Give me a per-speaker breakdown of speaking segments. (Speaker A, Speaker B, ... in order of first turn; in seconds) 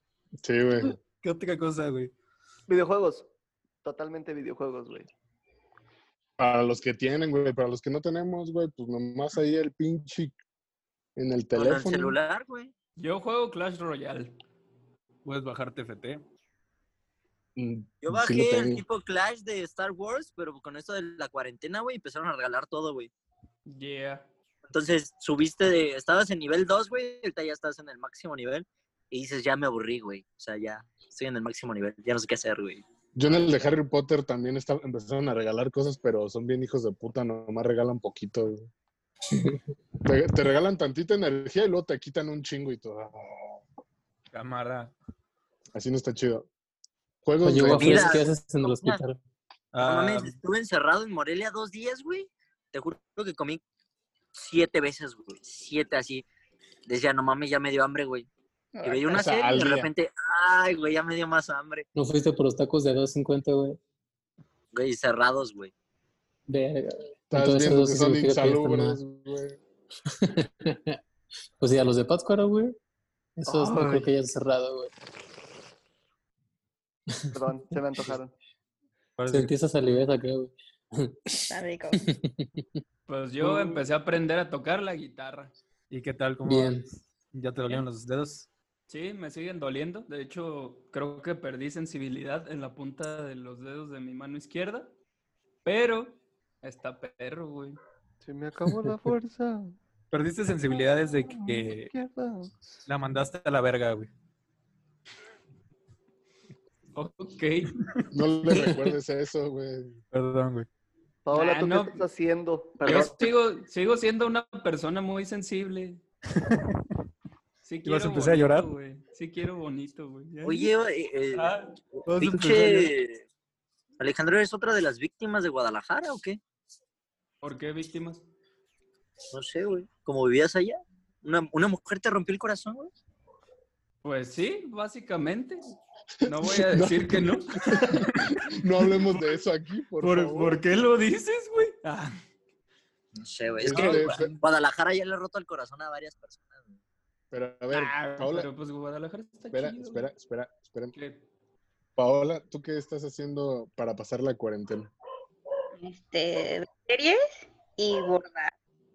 Speaker A: 0.4-1.0, 6.4-10.4, 11.2-12.2, 17.6-18.8, 33.1-38.7, 40.0-43.6, 45.8-46.5, 47.2-48.3, 59.1-59.9, 67.3-69.6, 108.1-110.0, 136.3-140.6, 143.6-144.4, 147.3-148.5, 149.5-150.9, 152.0-154.9
Speaker B: 1.2-2.1, 15.2-16.2, 44.3-44.9, 49.7-50.4, 79.2-79.5, 85.9-88.5, 100.1-101.9, 102.9-104.1, 107.8-108.0, 110.1-110.7, 116.3-116.7, 117.8-118.7, 122.1-122.9, 143.7-144.4
Speaker C: 2.7-3.3, 3.8-5.1, 77.3-78.3, 98.2-99.8, 100.7-102.5, 111.3-113.2
Speaker D: 11.6-12.7, 18.0-23.1, 24.7-33.5, 47.7-49.0, 49.8-53.6, 54.3-56.2, 56.9-58.3, 58.8-61.9, 64.7-65.7, 120.4-123.2, 124.0-126.4, 129.3-132.9, 143.2-146.8
Speaker E: 13.0-14.3, 23.7-24.2, 83.1-85.5, 88.9-94.9, 95.7-97.8, 107.0-107.8, 111.3-112.1, 112.8-116.0, 117.6-120.7, 121.3-121.7, 127.4-128.2, 134.0-135.7, 136.2-138.3, 140.0-142.2, 147.7-150.1, 150.9-151.2
Speaker F: 47.4-49.2, 62.0-63.8, 66.5-69.0, 70.2-71.0, 71.6-72.8, 73.4-74.9, 79.3-82.6, 86.5-86.9
Speaker G: 58.8-59.1, 81.5-82.1, 155.8-158.5